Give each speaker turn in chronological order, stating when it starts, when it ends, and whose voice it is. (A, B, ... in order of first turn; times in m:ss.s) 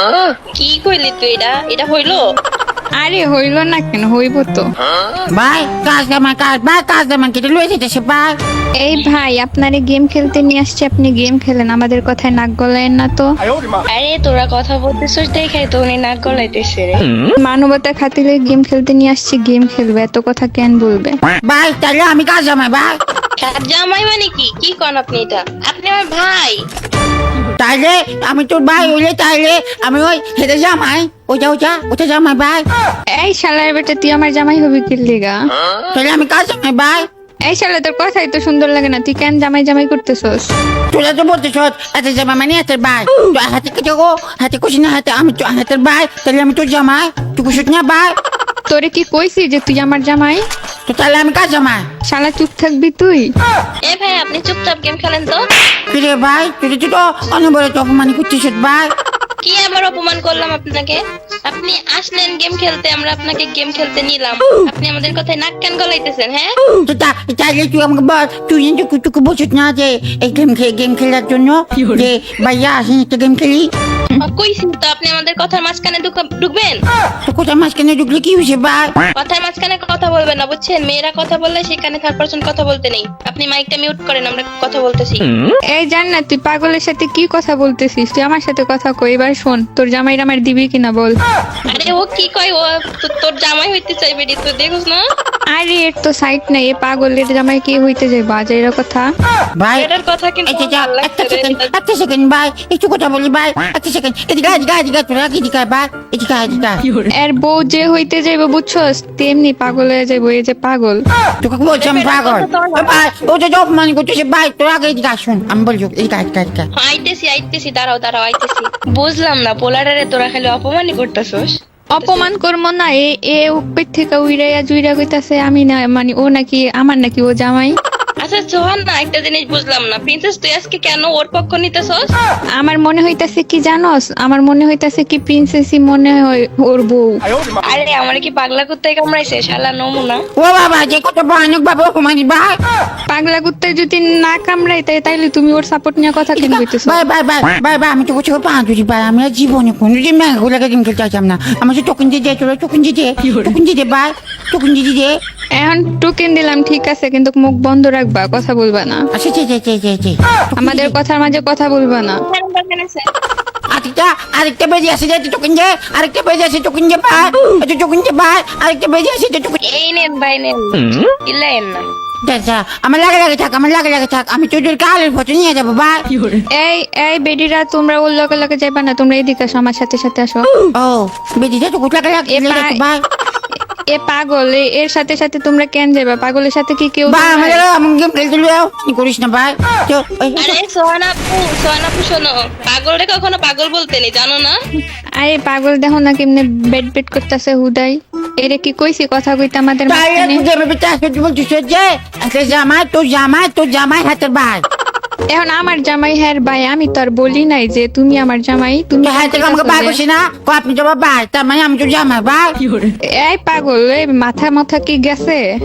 0:00.6-0:02.2 A
0:03.0-0:04.7 B
0:05.3-0:08.4 C
0:08.8-0:13.3 B
0:14.0-0:17.0 A
0:17.4-0:21.2 B
0:21.5-0:22.9 C
0:23.4-0:26.6 A
0:27.6-0:32.6 C
0:33.2-0:35.4 B
0:35.9-0:37.1 C
0:37.5-0:40.5 B
0:40.9-0:48.1 C
0:48.7-0:50.4 B
0:50.9-0:51.8 C
0:52.1-0:53.3 B
0:53.8-0:55.4 A
0:55.9-0:58.9 C
0:59.4-1:06.6 A
1:06.9-1:13.7 C
1:14.2-1:16.8 A
1:17.3-1:18.9 C
1:19.2-1:25.3 A
1:25.7-1:31.1 B
1:31.7-1:35.0 A
1:35.5-1:39.1 B
1:39.6-1:39.9 C
1:39.8-1:41.7 A
1:40.5-1:46.9 C
1:47.1-1:51.0 B
1:51.4-1:56.7 C
1:51.8-1:53.0 A
1:56.8-2:01.5 A
2:01.9-2:07.7 B
2:02.0-2:02.3 A
2:08.2-2:12.1 A
2:12.6-2:17.1 B
2:17.7-2:20.2 A
2:20.4-2:22.6 C
2:23.1-2:27.0 B
2:26.4-2:35.1 C
2:35.6-2:39.0 B
2:39.1-2:41.0 C
2:40.6-2:42.2 B
2:42.3-2:43.1 A
2:43.7-2:49.6 C
2:49.7-2:51.8 A
2:52.2-2:56.0 C
2:56.5-3:00.5 B
3:00.7-3:03.0 C
3:02.3-3:02.8 B
3:03.9-3:07.6 B
3:07.1-3:10.6 C
3:10.4-3:14.6 A
3:15.2-3:20.4 B
3:19.9-3:24.6 C
3:25.3-3:30.0 B
3:29.0-3:32.6 C
3:33.2-3:35.5 B